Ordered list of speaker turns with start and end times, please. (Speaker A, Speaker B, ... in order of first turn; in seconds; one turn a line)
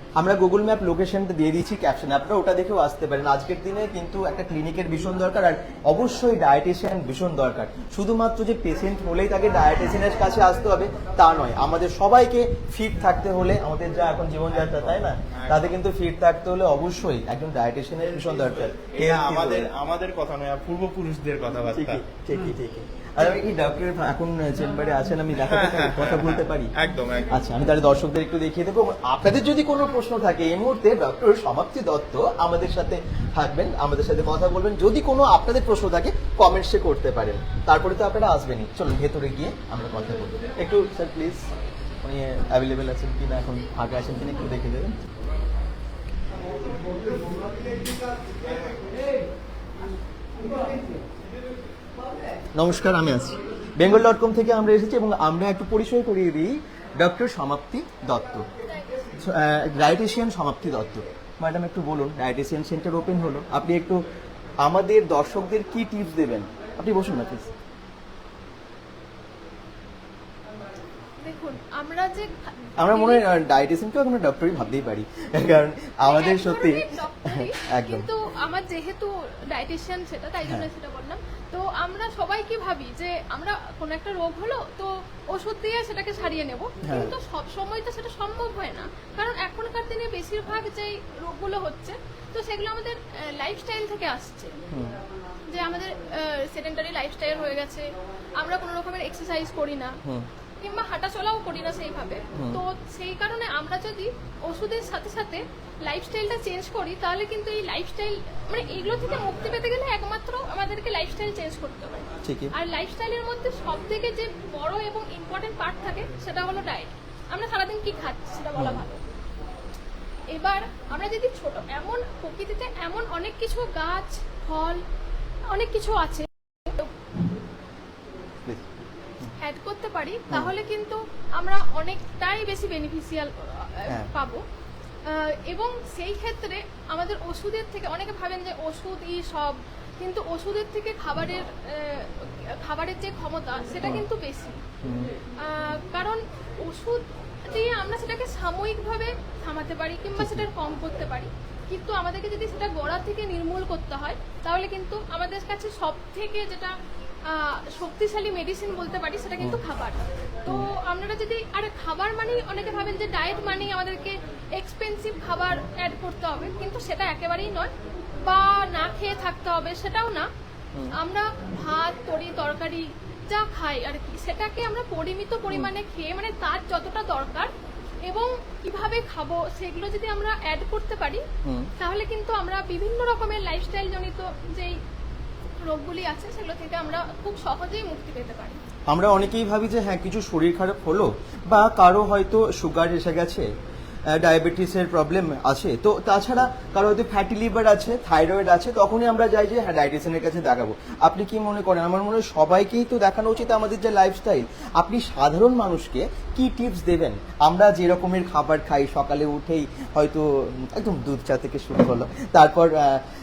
Speaker A: 0.2-19.7
Speaker B: 14.5-15.8
Speaker B: 18.1-22.5
Speaker A: 21.7-26.7
Speaker B: 25.4-27.3
Speaker A: 27.3-41.5
Speaker A: 42.0-45.0
Speaker A: 52.5-58.4
Speaker A: 59.2-64.0
Speaker A: 64.6-67.5
Speaker C: 71.2-73.2
Speaker A: 72.8-78.1
Speaker C: 76.0-94.5
Speaker A: 86.8-87.1
Speaker A: 94.7-95.0
Speaker C: 95.5-99.9
Speaker C: 100.6-119.0
Speaker A: 112.2-112.5
Speaker A: 118.6-118.8
Speaker C: 120.3-124.8
Speaker C: 125.5-126.9
Speaker C: 129.4-134.4
Speaker C: 135.1-144.6
Speaker A: 144.8-145.1
Speaker C: 145.4-156.7
Speaker A: 150.1-150.5
Speaker C: 157.2-170.3
Speaker C: 171.0-177.5
Speaker C: 178.0-181.2
Speaker A: 181.4-181.7
Speaker C: 181.8-184.7
Speaker C: 185.6-188.6
Speaker A: 188.9-193.5
Speaker A: 194.1-213.0